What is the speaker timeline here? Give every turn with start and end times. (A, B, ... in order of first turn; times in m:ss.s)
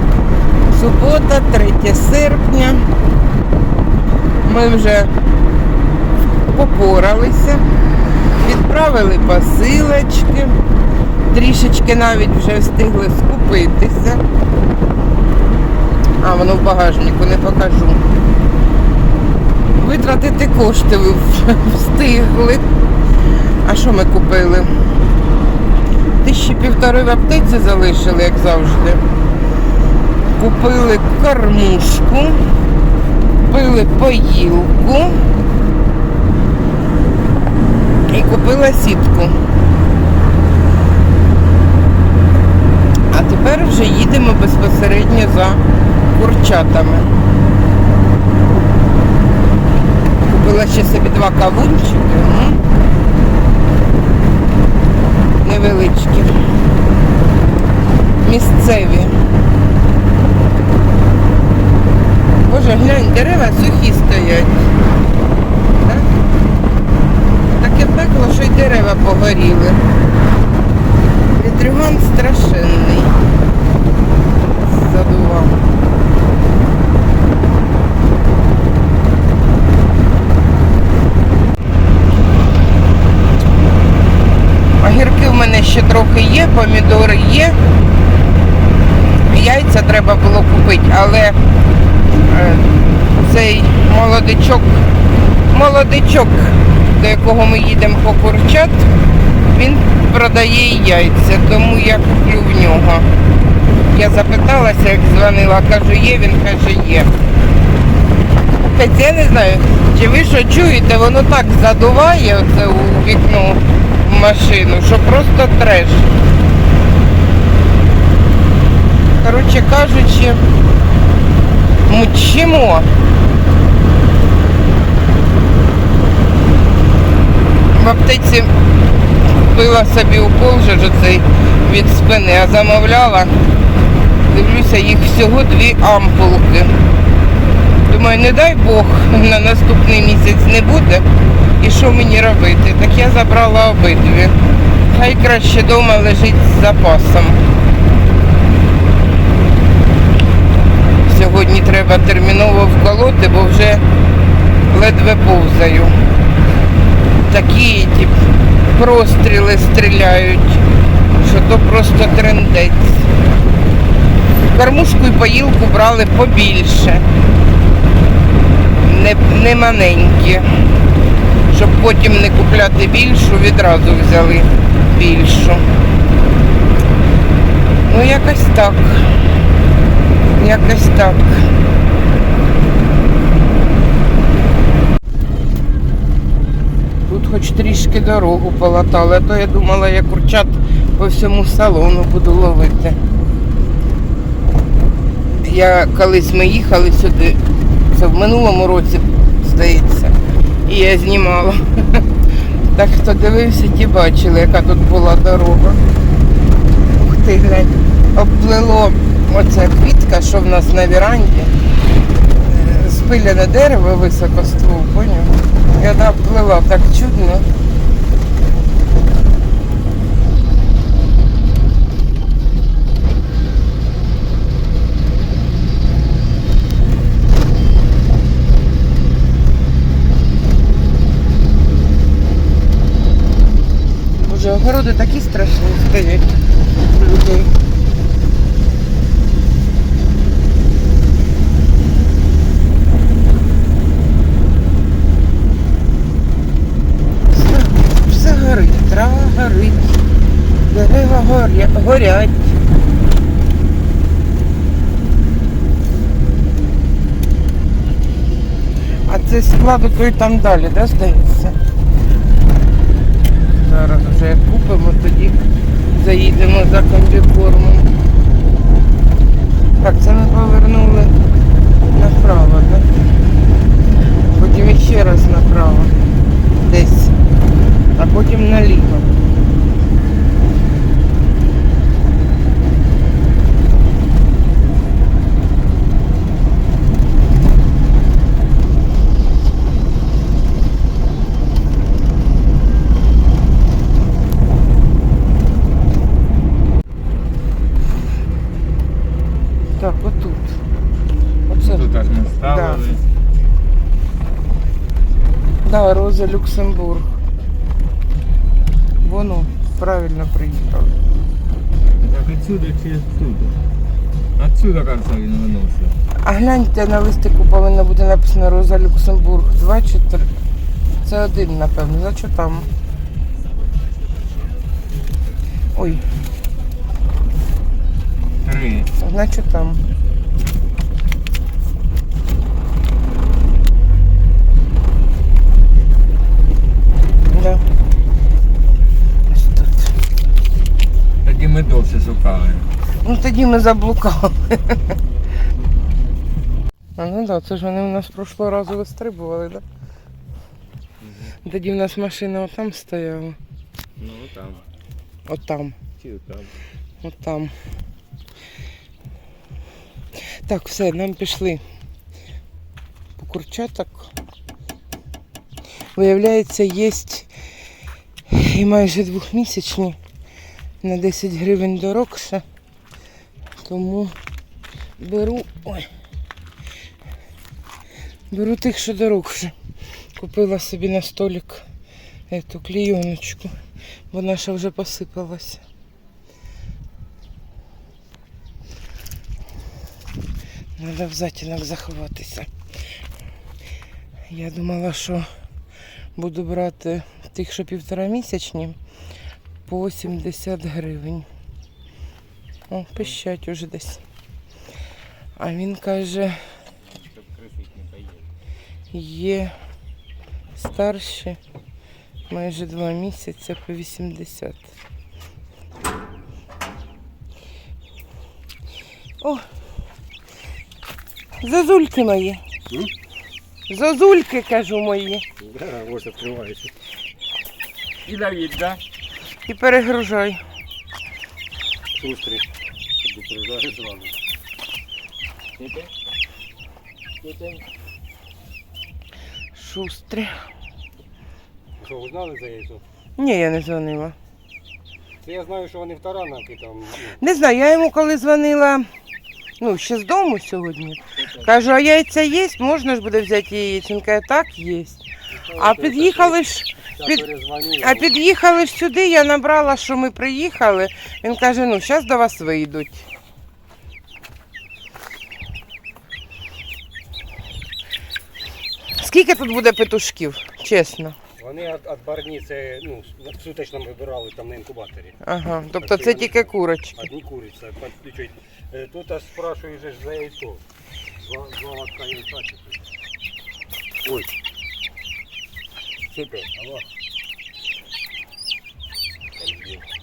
0:00.7-0:02.8 A
0:04.4-0:05.1 A
0:06.5-0:07.6 A
0:08.4-0:10.6 A
0:11.3-0:14.2 A
0:16.2-0:18.0 A
0:19.8-0:22.6 A
0:23.6-0:24.8 A
0:26.2-0:29.0 A
0:30.4-0:32.4 A
0:33.4-0:35.3 A
0:38.1-0:39.4 A
0:43.1-0:47.1 A
0:50.3-0:52.6 A
0:55.4-0:56.4 A
0:58.2-0:59.2 A
1:02.4-1:04.7 A
1:05.8-1:06.1 A
1:07.5-1:09.8 A
1:11.4-1:13.2 A
1:14.6-1:15.6 A
1:24.8-1:27.6 A
1:29.3-1:31.4 A
1:32.2-1:34.8 A
1:35.5-1:38.9 A
1:39.5-1:43.1 A
1:43.9-1:47.1 A
1:48.6-1:56.1 A
1:59.2-2:00.4 A
2:01.9-2:02.9 A
2:07.7-2:08.5 A
2:09.3-2:13.4 A
2:14.3-2:16.8 A
2:17.9-2:24.4 A
2:24.9-2:27.4 A
2:31.0-2:33.8 A
2:34.7-2:36.0 A
2:37.3-2:40.7 A
2:41.2-2:43.1 A
2:44.5-2:47.0 A
2:48.8-2:50.7 A
2:51.5-2:55.7 A
2:57.9-2:59.2 A
3:00.4-3:01.5 A
3:07.1-3:13.0 A
3:15.4-3:17.4 A
3:17.9-3:22.1 A
3:22.7-3:25.8 A
3:26.9-3:31.5 A
3:32.4-3:37.5 A
3:54.2-3:56.3 A
3:56.8-3:57.5 A
4:07.3-4:10.0 A
4:10.7-4:12.6 A
4:19.1-4:21.6 A
4:23.6-4:25.4 A
4:25.9-4:27.9 A
4:29.8-4:31.1 A
4:31.9-4:32.9 A
4:34.3-4:35.9 A
4:36.6-4:37.1 A
4:38.0-4:39.1 A
4:59.8-5:00.6 A
5:01.5-5:02.8 A
5:01.6-5:03.0 B
5:05.6-5:07.2 A
5:09.0-5:11.0 A
5:12.0-5:13.6 B
5:14.4-5:16.0 B
5:16.2-5:20.3 A
5:21.0-5:22.7 A
5:25.7-5:26.0 A
5:28.4-5:28.9 B
5:29.0-5:29.8 A
5:37.3-5:37.6 A
5:39.3-5:39.9 A
5:41.2-5:42.7 B
5:43.0-5:45.0 A
5:47.0-5:49.6 A
5:51.4-5:53.4 A
5:54.0-5:54.7 B
5:55.3-5:55.8 A
5:56.0-5:56.6 B
5:57.0-5:57.5 A
6:00.2-6:01.6 A
6:03.2-6:04.1 A
6:06.0-6:07.3 A
6:08.3-6:10.0 A
6:10.8-6:12.4 A
6:13.6-6:14.1 A
6:15.0-6:15.9 A
6:18.3-6:19.5 A
6:20.2-6:21.7 A
6:22.3-6:23.6 A
6:24.1-6:25.6 A
6:30.8-6:32.5 A
6:34.3-6:35.3 A
6:36.2-6:38.8 A
6:39.7-6:41.3 A
6:42.7-6:44.0 A
6:45.4-6:46.5 A
6:47.3-6:48.0 B
6:48.9-6:49.6 A
6:50.6-6:51.4 A
6:52.3-6:54.7 A
7:01.4-7:02.4 A
7:03.7-7:05.2 A
7:05.4-7:06.7 C
7:08.1-7:08.8 B
7:09.5-7:10.4 A
7:11.9-7:12.5 C
7:13.0-7:14.1 C
7:19.6-7:20.4 A
7:21.8-7:22.8 C
7:23.2-7:24.2 A
7:25.2-7:27.2 C
7:27.2-7:28.9 A
7:29.6-7:35.0 A
7:35.3-7:36.4 C
7:35.5-7:37.2 A
7:37.0-7:38.1 C
7:37.8-7:43.0 A
7:49.0-7:51.2 A
7:51.4-7:55.2 C
7:55.2-7:57.0 A
7:55.8-8:00.6 C
8:01.2-8:02.8 C
8:06.2-8:06.9 C
8:09.4-8:09.8 C